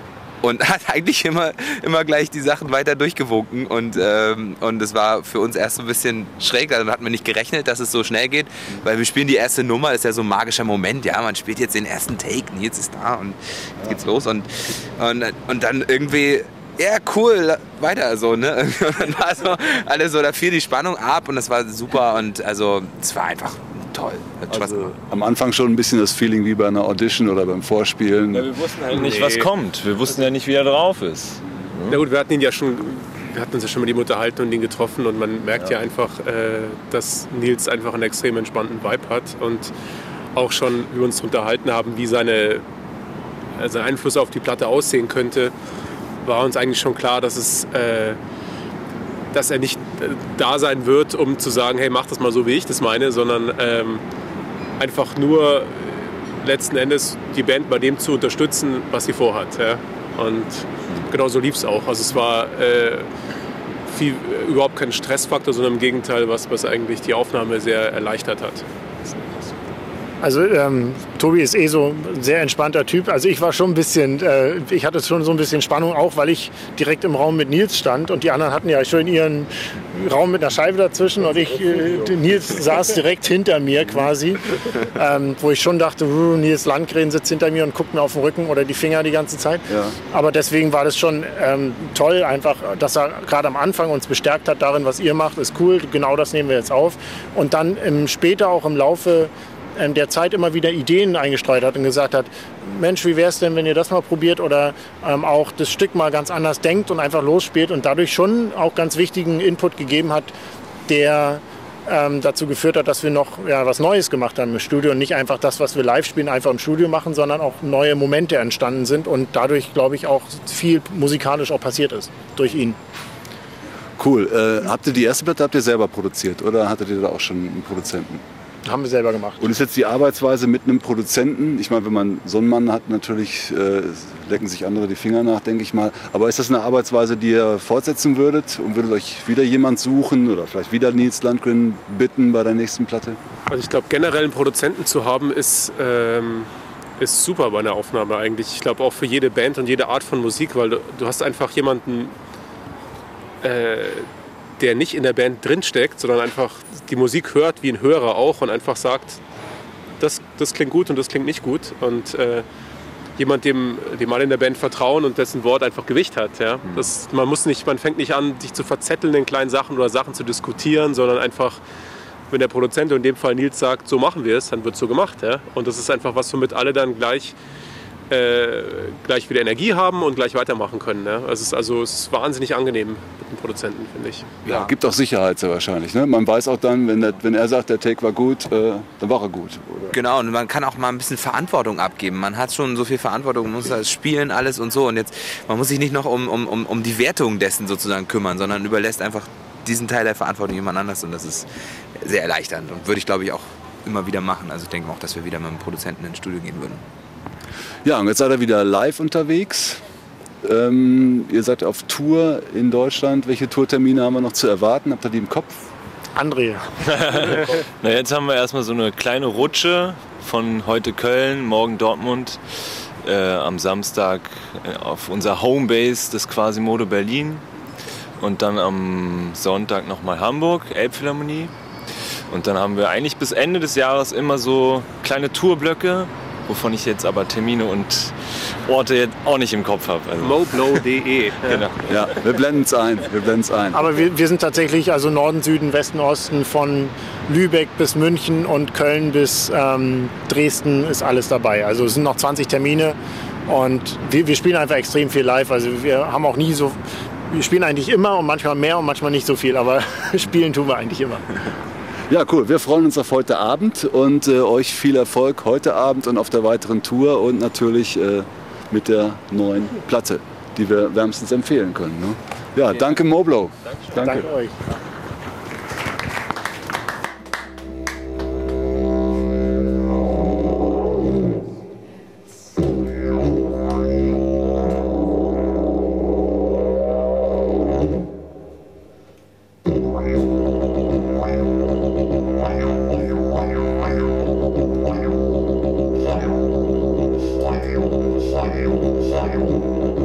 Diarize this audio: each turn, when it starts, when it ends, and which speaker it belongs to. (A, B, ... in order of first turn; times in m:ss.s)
0:00.4-0:25.0 A
0:24.5-0:28.6 B
0:28.3-0:32.0 C
0:28.8-0:29.5 D
0:31.9-0:39.7 D
0:40.3-0:42.6 D
0:43.6-0:45.5 D
0:46.2-0:48.2 D
0:49.3-0:54.0 D
0:54.8-1:03.1 D
1:03.9-1:09.4 D
1:10.2-1:50.3 E
1:29.7-1:29.9 B
1:50.9-2:02.8 E
2:04.0-2:08.2 B
2:08.6-2:09.5 E
2:09.4-2:23.2 B
2:23.5-2:32.1 D
2:33.4-2:39.2 D
2:40.0-2:42.4 D
2:43.2-2:51.6 D
2:52.3-2:57.3 D
2:58.1-3:04.7 D
3:04.4-3:09.9 B
3:09.9-3:21.5 A
3:22.0-3:26.8 A
3:27.8-3:29.8 B
3:30.4-3:35.6 B
3:36.2-3:36.7 E
3:36.9-3:42.4 C
3:43.0-3:47.4 C
3:48.2-3:51.5 C
3:52.3-4:00.8 C
4:00.2-4:01.6 D
4:01.4-4:02.0 C
4:01.9-4:03.9 B
4:03.7-4:13.0 E
4:13.5-4:16.8 E
4:17.3-4:21.5 E
4:22.1-4:34.3 B
4:34.0-4:34.6 E